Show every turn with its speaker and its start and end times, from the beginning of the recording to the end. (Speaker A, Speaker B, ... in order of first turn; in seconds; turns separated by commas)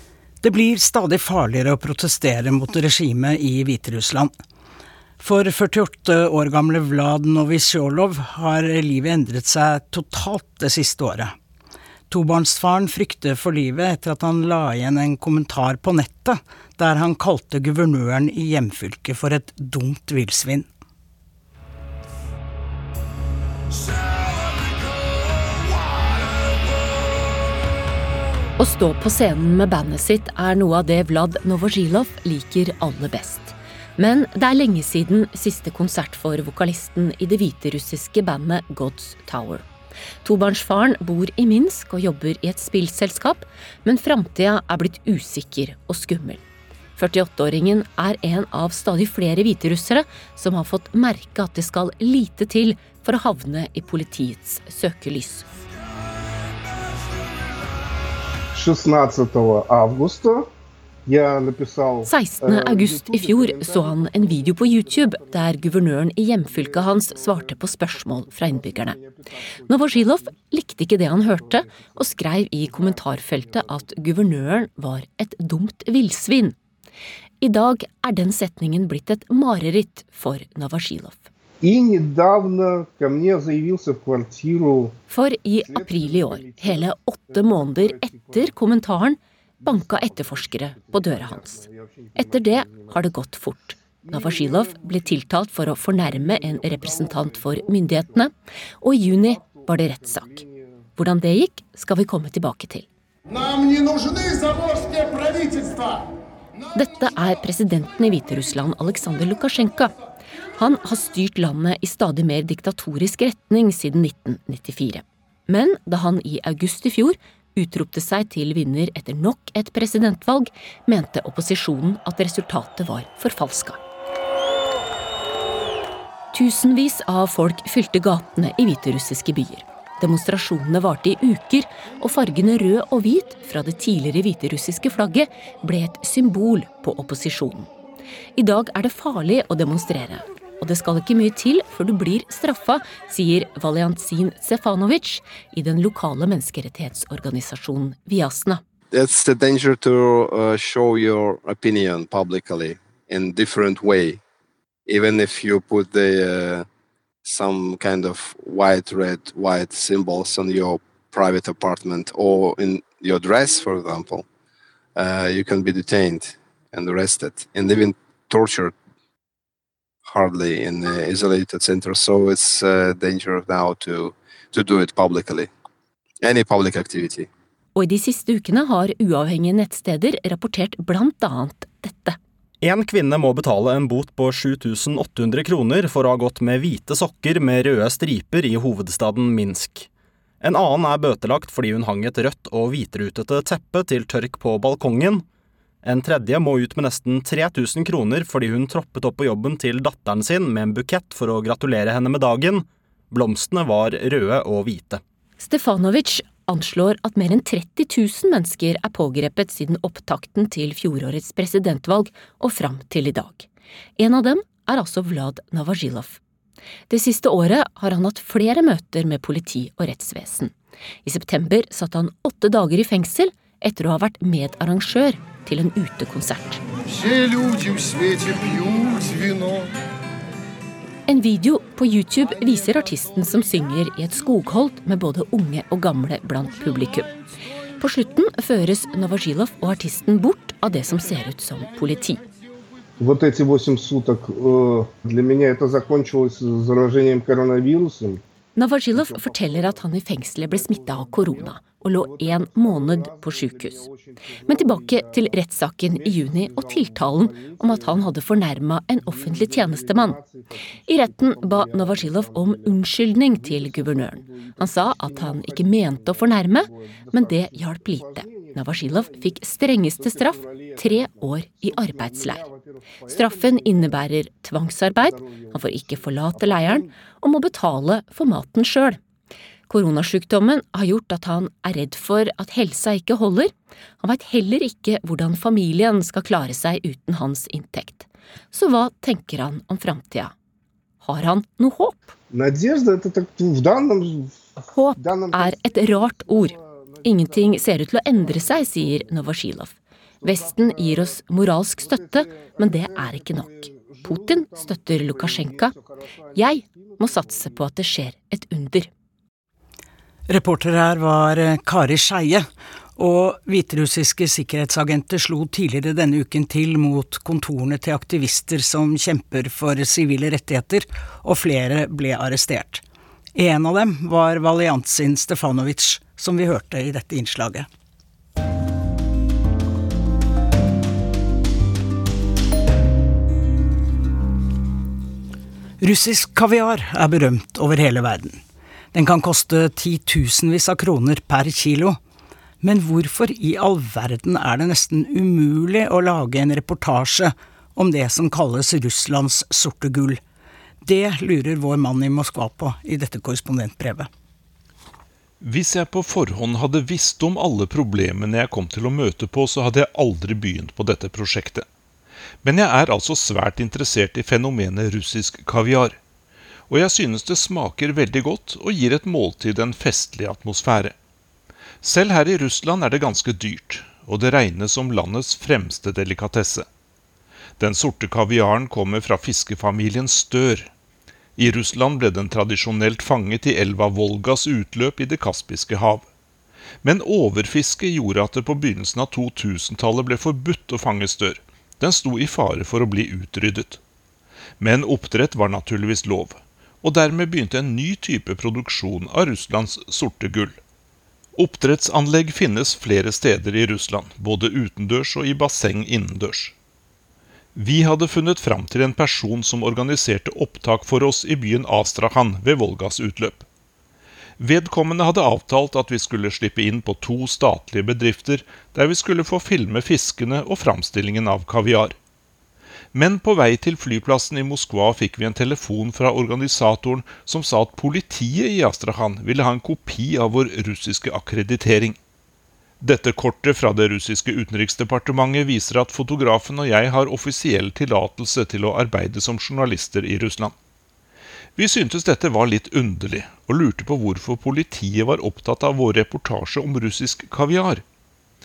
Speaker A: 0.4-4.3, Speaker A: 5.2-11.3, Speaker A: 12.1-20.7, Speaker B: 28.6-39.6, Speaker B: 40.2-46.4, Speaker B: 47.0-55.5, Speaker C: 58.5-60.5, Speaker C: 61.1-74.5, Speaker B: 62.0-69.0, Speaker B: 69.7-76.6, Speaker B: 77.4-81.3, Speaker C: 81.6-85.0, Speaker B: 85.1-91.6, Speaker C: 85.6-88.6, Speaker C: 89.6-98.3, Speaker B: 92.2-100.4, Speaker C: 98.9-100.9, Speaker B: 101.0-102.9, Speaker B: 106.7-110.0, Speaker B: 110.5-123.8, Speaker B: 126.3-137.7, Speaker B: 138.4-148.6, Speaker D: 148.9-154.2, Speaker D: 154.9-156.7, Speaker D: 157.2-164.2, Speaker D: 165.0-168.7, Speaker D: 170.1-175.5, Speaker D: 176.2-177.3, Speaker B: 177.8-182.2, Speaker E: 182.6-189.9, Speaker E: 190.4-195.2, Speaker E: 195.8-205.0, Speaker B: 205.4-213.5, Speaker B: 214.0-216.2, Speaker B: 216.9-220.5, Speaker B: 221.0-226.6, Speaker B: 231.1-237.1, Speaker B: 237.8-242.2, Speaker C: 243.0-248.2, Speaker B: 248.6-253.9, Speaker C: 248.9-258.3, Speaker B: 254.5-260.2, Speaker C: 259.0-274.1, Speaker B: 260.9-272.4, Speaker B: 273.1-279.0, Speaker C: 274.7-277.0, Speaker B: 279.7-290.3, Speaker B: 291.0-292.1, Speaker C: 292.3-299.5, Speaker B: 294.7-296.5, Speaker B: 297.0-305.8, Speaker C: 300.2-307.8, Speaker B: 306.4-308.9, Speaker A: 310.3-322.8, Speaker A: 323.4-327.7, Speaker A: 335.8-338.4, Speaker A: 338.9-342.0, Speaker A: 342.6-350.2, Speaker A: 350.8-354.1, Speaker F: 355.4-361.6, Speaker F: 362.4-366.0, Speaker F: 366.7-370.9, Speaker F: 371.8-376.7, Speaker F: 377.6-380.7, Speaker F: 381.4-386.1, Speaker F: 386.8-393.8, Speaker F: 394.6-400.6, Speaker F: 401.4-406.6, Speaker F: 407.6-413.5, Speaker F: 414.4-422.0, Speaker F: 422.9-432.0, Speaker F: 432.8-440.6, Speaker F: 441.6-447.8